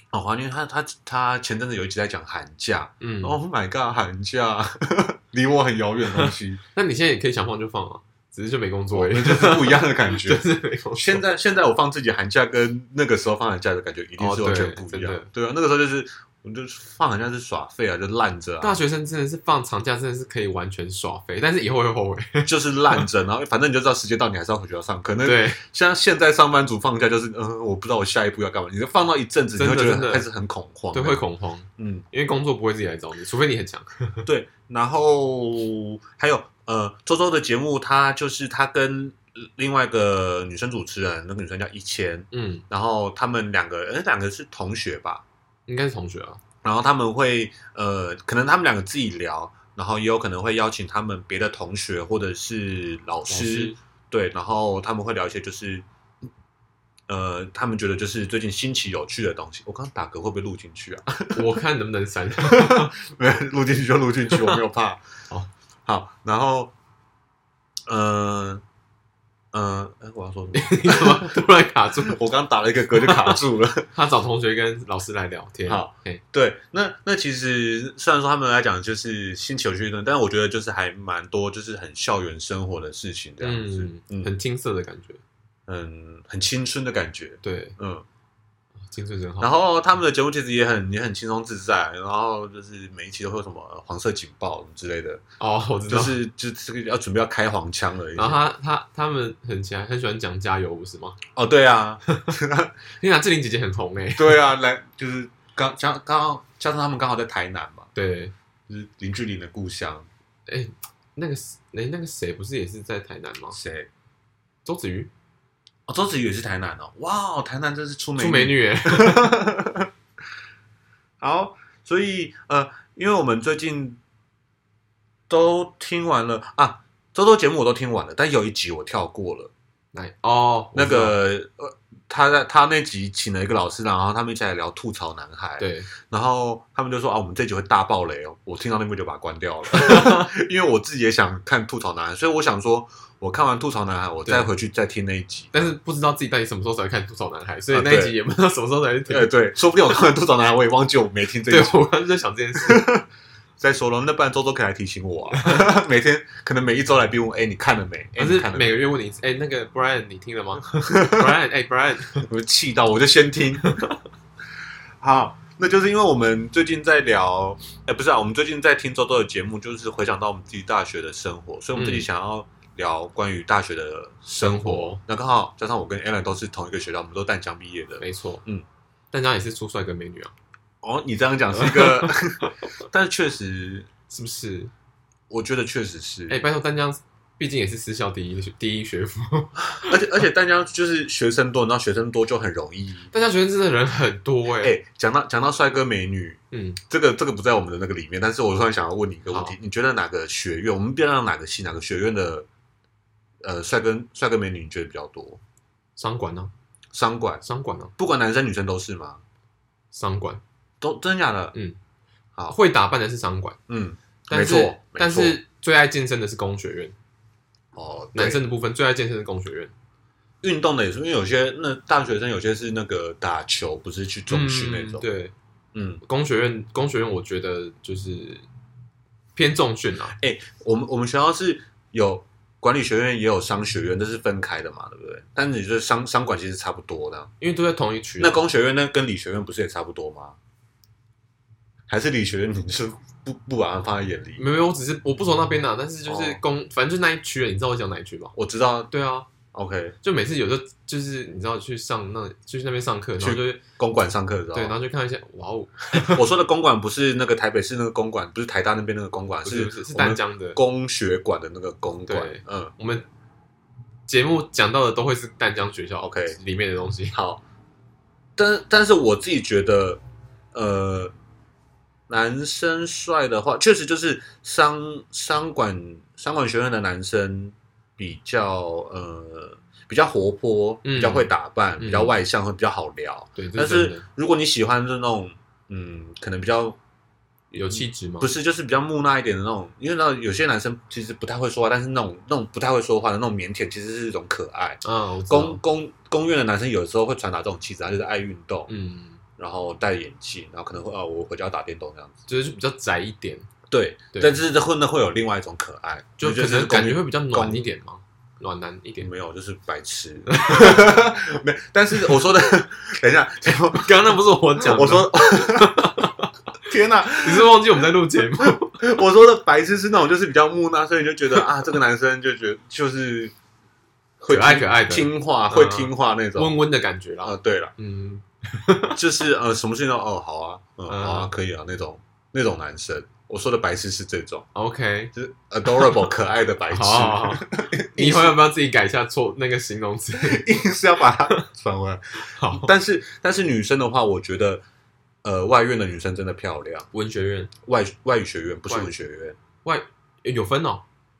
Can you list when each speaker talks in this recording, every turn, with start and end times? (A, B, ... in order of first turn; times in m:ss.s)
0:00.1-0:06.6 A
0:03.0-0:03.4 B
0:06.1-0:11.2 B
0:08.9-0:18.8 A
0:14.2-0:15.3 B
0:18.6-0:23.0 B
0:22.4-0:31.2 A
0:25.2-0:25.6 B
0:29.6-0:30.2 B
0:30.9-0:34.2 B
0:31.8-0:32.0 A
0:34.2-0:45.2 A
0:42.3-0:42.6 B
0:45.7-0:46.4 B
0:46.6-0:55.8 A
0:53.3-0:53.8 B
0:57.1-1:01.4 A
1:01.3-1:02.9 B
1:02.4-1:05.0 A
1:04.3-1:04.6 B
1:05.8-1:06.7 A
1:07.9-1:08.6 A
1:09.5-1:11.4 A
1:10.5-1:12.2 B
1:12.0-1:13.9 A
1:13.0-1:13.4 B
1:13.9-1:16.2 B
1:15.7-1:24.3 A
1:23.4-1:25.2 B
1:25.7-1:28.0 A
1:27.4-1:27.8 B
1:28.9-1:29.5 B
1:29.4-1:35.2 A
1:35.4-1:36.2 B
1:35.9-1:38.4 A
1:38.2-1:41.2 B
1:41.3-1:42.7 A
1:42.1-1:42.3 B
1:43.0-1:44.4 B
1:44.2-1:47.9 A
1:47.9-1:48.3 B
1:48.7-1:50.1 A
1:50.5-1:53.6 B
1:53.5-1:53.9 A
1:54.6-1:55.1 B
1:55.9-1:59.9 A
1:58.2-1:59.3 B
2:01.2-2:04.0 A
2:05.3-2:09.5 A
2:09.9-2:11.2 B
2:10.7-2:25.7 A
2:15.6-2:15.9 B
2:19.7-2:20.3 B
2:25.5-2:29.3 B
2:27.7-2:28.2 A
2:29.1-2:31.8 A
2:31.5-2:32.9 B
2:32.6-2:33.0 A
2:33.6-2:38.7 A
2:35.4-2:35.7 B
2:38.2-2:42.2 B
2:40.8-2:41.3 A
2:42.2-2:43.8 A
2:43.7-2:43.9 B
2:45.0-2:58.6 A
2:51.7-2:52.0 B
2:54.4-2:55.0 B
2:58.0-2:58.4 B
2:59.1-3:00.3 B
3:00.8-3:03.9 A
3:01.6-3:02.5 B
3:04.1-3:04.7 B
3:05.3-3:06.4 A
3:06.3-3:09.9 B
3:09.7-3:13.1 A
3:13.1-3:14.8 B
3:14.6-3:22.5 A
3:16.5-3:16.8 B
3:19.3-3:19.5 B
3:23.4-3:25.4 A
3:26.0-3:26.5 B
3:26.9-3:27.4 A
3:27.4-3:27.9 B
3:28.0-3:29.2 A
3:29.9-3:30.4 B
3:30.8-3:31.5 A
3:32.5-3:33.6 B
3:33.7-3:35.4 A
3:34.3-3:36.9 B
3:37.7-3:38.4 A
3:38.1-3:39.7 B
3:40.4-3:45.0 A
3:44.3-3:45.3 B
3:45.7-3:46.0 A
3:46.0-3:48.4 B
3:49.3-3:50.2 B
3:50.2-3:57.3 A
3:57.4-3:58.4 B
3:58.2-4:00.4 A
4:01.9-4:04.4 A
4:04.4-4:08.3 B
4:06.0-4:06.4 A
4:08.3-4:08.9 A
4:08.9-4:09.3 B
4:09.5-4:10.0 A
4:10.0-4:13.6 B
4:13.2-4:14.8 A
4:14.5-4:16.2 B
4:15.9-4:22.7 A
4:19.4-4:20.6 B
4:22.1-4:23.0 B
4:24.1-4:27.2 B
4:26.0-4:26.4 A
4:27.1-4:27.4 A
4:28.4-4:30.0 A
4:30.5-4:31.1 A
4:32.1-4:46.8 A
4:40.8-4:42.2 B
4:43.4-4:44.0 B
4:47.5-4:48.3 B
4:47.7-4:58.7 A
4:54.8-4:55.6 B
4:58.7-4:59.2 B
4:59.4-5:02.2 A
5:02.3-5:03.5 B
5:03.7-5:07.6 A
5:04.1-5:04.4 B
5:06.2-5:09.1 B
5:09.0-5:16.0 A
5:10.3-5:10.9 B
5:13.4-5:16.3 B
5:16.6-5:17.8 A
5:17.2-5:18.8 B
5:18.4-5:23.3 A
5:24.2-5:26.5 A
5:24.3-5:29.0 B
5:27.2-5:27.7 A
5:29.0-5:34.4 A
5:30.9-5:31.3 B
5:34.5-5:35.1 B
5:35.1-5:38.4 A
5:35.6-5:36.0 B
5:36.7-5:40.4 B
5:40.2-5:44.6 A
5:42.2-5:42.7 B
5:45.2-5:46.9 A
5:46.9-5:47.5 B
5:47.6-5:49.4 A
5:49.6-5:50.8 B